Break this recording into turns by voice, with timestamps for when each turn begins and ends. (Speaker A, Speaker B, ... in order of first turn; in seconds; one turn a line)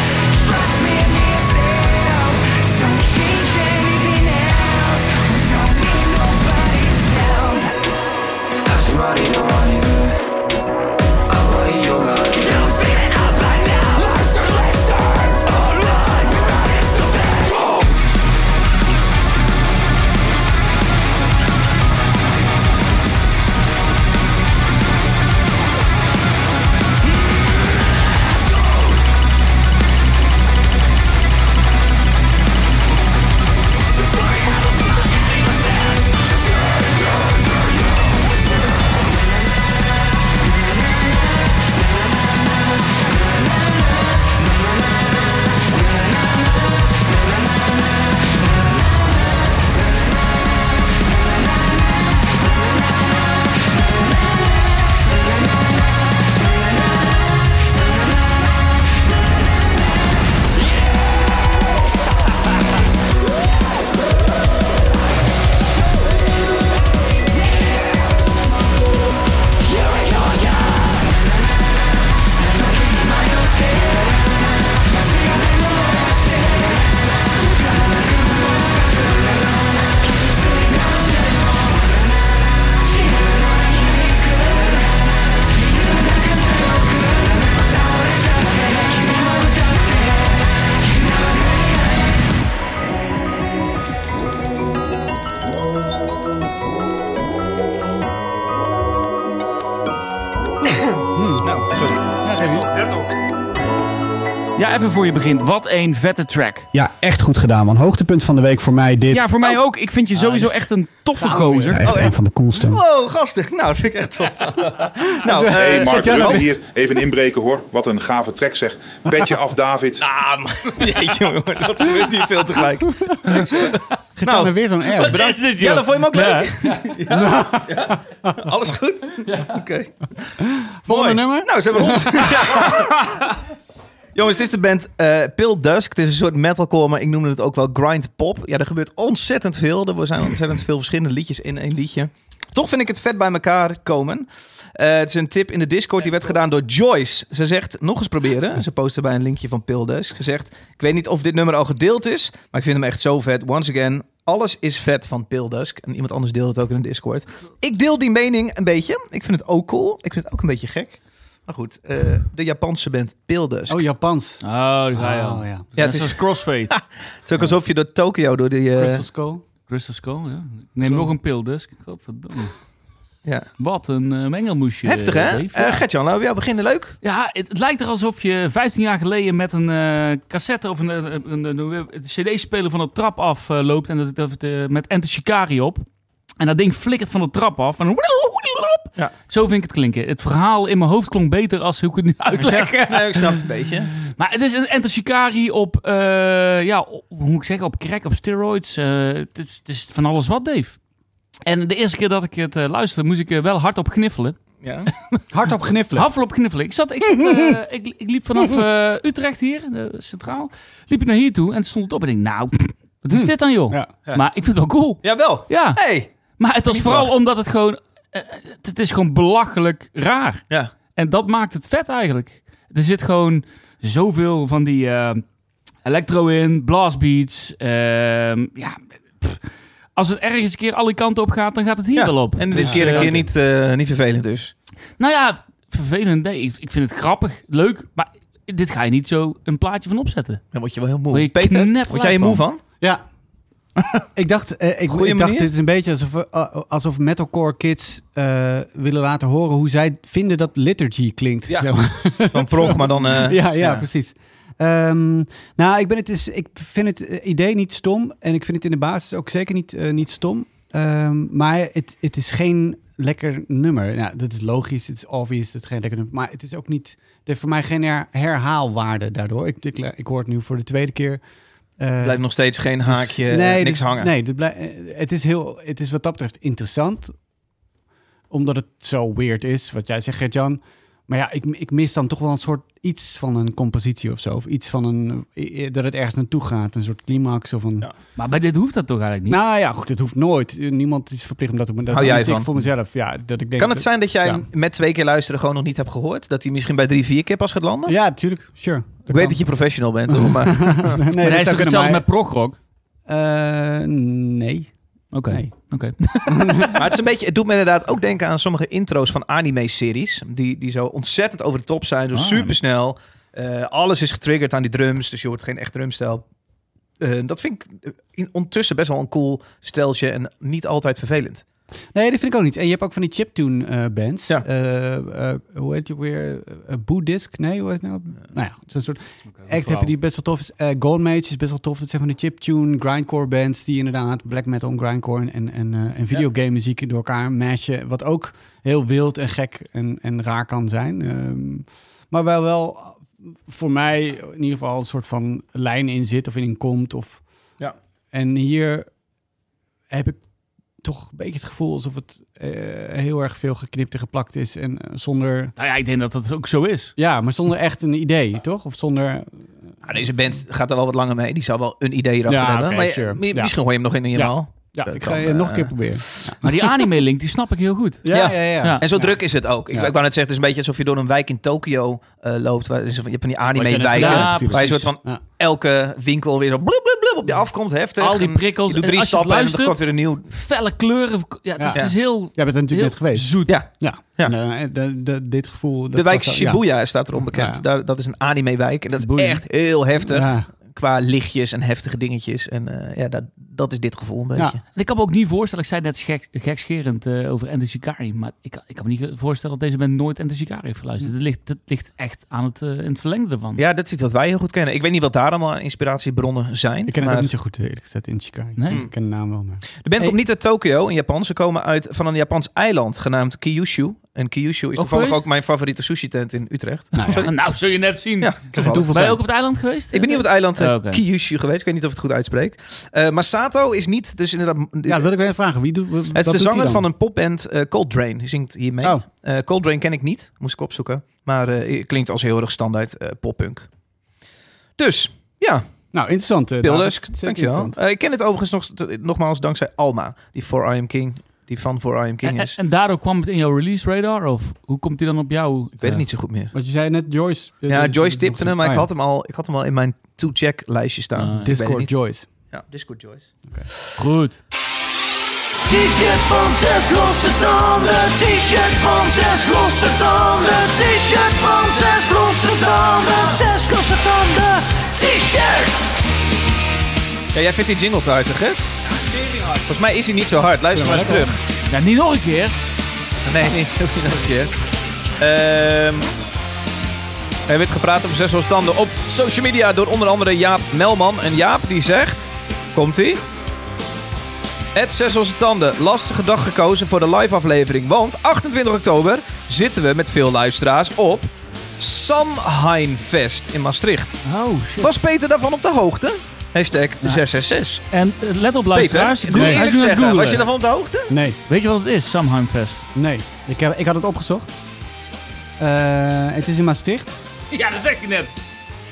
Speaker A: 0.5-7.4
Speaker A: 8.7-10.0
Speaker A: 11.4-15.3
Speaker A: 16.4-17.5
Speaker B: 101.0-102.0
Speaker C: 101.1-101.5
Speaker C: 102.2-102.7
Speaker D: 102.7-103.1
Speaker D: 104.6-106.7
Speaker C: 106.7-109.3
Speaker D: 109.1-111.9
Speaker C: 111.1-112.8
Speaker B: 111.8-116.5
Speaker C: 115.2-116.5
Speaker E: 115.5-120.0
Speaker B: 120.0-130.0
Speaker D: 123.3-123.9
Speaker C: 124.2-125.3
Speaker D: 125.0-126.8
Speaker C: 127.0-128.3
Speaker C: 130.4-132.7
Speaker B: 130.9-133.1
Speaker B: 134.2-163.8
Speaker C: 163.7-164.4
Speaker D: 164.4-166.7
Speaker C: 164.9-165.7
Speaker B: 165.8-169.0
Speaker C: 168.8-169.4
Speaker D: 169.7-172.6
Speaker B: 170.8-171.1
Speaker D: 173.6-175.8
Speaker B: 174.8-177.0
Speaker D: 177.0-185.8
Speaker D: 186.4-193.5
Speaker B: 192.4-193.9
Speaker D: 194.1-200.8
Speaker D: 201.5-204.4
Speaker B: 204.6-204.9
Speaker C: 205.3-206.1
Speaker D: 205.9-225.2
Speaker C: 207.1-207.6
Speaker C: 213.1-213.9
Speaker B: 215.0-217.1
Speaker D: 225.8-233.3
Speaker B: 232.0-234.5
Speaker C: 232.5-233.3
Speaker D: 235.0-240.4
Speaker B: 240.5-242.6
Speaker D: 241.1-242.4
Speaker C: 244.2-271.2
Speaker B: 244.9-245.5
Speaker B: 251.5-253.8
Speaker C: 271.8-277.2
Speaker B: 272.0-274.1
Speaker C: 278.3-287.9
Speaker D: 288.2-289.4
Speaker C: 289.3-294.4
Speaker B: 291.9-292.5
Speaker B: 293.6-298.0
Speaker C: 297.9-302.1
Speaker B: 299.1-301.0
Speaker D: 301.2-302.6
Speaker C: 303.1-305.5
Speaker D: 305.1-306.7
Speaker C: 306.3-306.8
Speaker B: 306.7-316.3
Speaker D: 312.1-312.6
Speaker B: 317.0-321.4
Speaker C: 321.9-347.5
Speaker D: 329.4-329.9
Speaker C: 348.1-348.9
Speaker C: 349.9-355.5
Speaker D: 355.6-356.9
Speaker C: 357.0-360.1
Speaker B: 359.9-366.4
Speaker C: 362.3-366.7
Speaker D: 366.4-368.9
Speaker C: 368.0-369.9
Speaker B: 368.1-380.3
Speaker C: 373.5-375.2
Speaker D: 373.9-374.9
Speaker D: 378.0-383.6
Speaker C: 381.6-387.6
Speaker B: 381.7-382.0
Speaker B: 383.5-384.4
Speaker B: 385.9-394.6
Speaker D: 389.0-389.4
Speaker C: 390.1-390.5
Speaker D: 394.7-403.6
Speaker B: 403.6-407.3
Speaker C: 406.9-410.2
Speaker D: 408.6-408.8
Speaker B: 409.8-425.1
Speaker D: 414.8-415.2
Speaker C: 416.9-417.3
Speaker D: 417.1-421.0
Speaker C: 418.5-419.2
Speaker C: 424.9-426.9
Speaker B: 426.1-433.7
Speaker B: 434.8-435.9
Speaker C: 435.9-437.8
Speaker B: 436.6-442.6
Speaker D: 442.2-446.1
Speaker B: 445.8-446.5
Speaker C: 446.5-448.9
Speaker B: 447.7-453.4
Speaker D: 451.2-451.6
Speaker C: 451.4-452.5
Speaker D: 454.0-454.4
Speaker A: 455.6-465.9
Speaker B: 467.3-468.7
Speaker D: 468.9-469.6
Speaker B: 469.7-471.4
Speaker C: 470.7-471.4
Speaker D: 471.7-472.5
Speaker B: 473.2-474.5
Speaker B: 475.2-476.1
Speaker B: 477.5-483.2
Speaker B: 484.7-494.2
Speaker D: 494.2-494.9
Speaker B: 494.8-497.8
Speaker D: 497.9-500.5
Speaker B: 498.7-501.1
Speaker C: 499.3-499.7
Speaker C: 501.1-501.4
Speaker D: 501.5-502.9
Speaker C: 502.9-504.5
Speaker C: 505.6-507.2
Speaker D: 507.5-508.3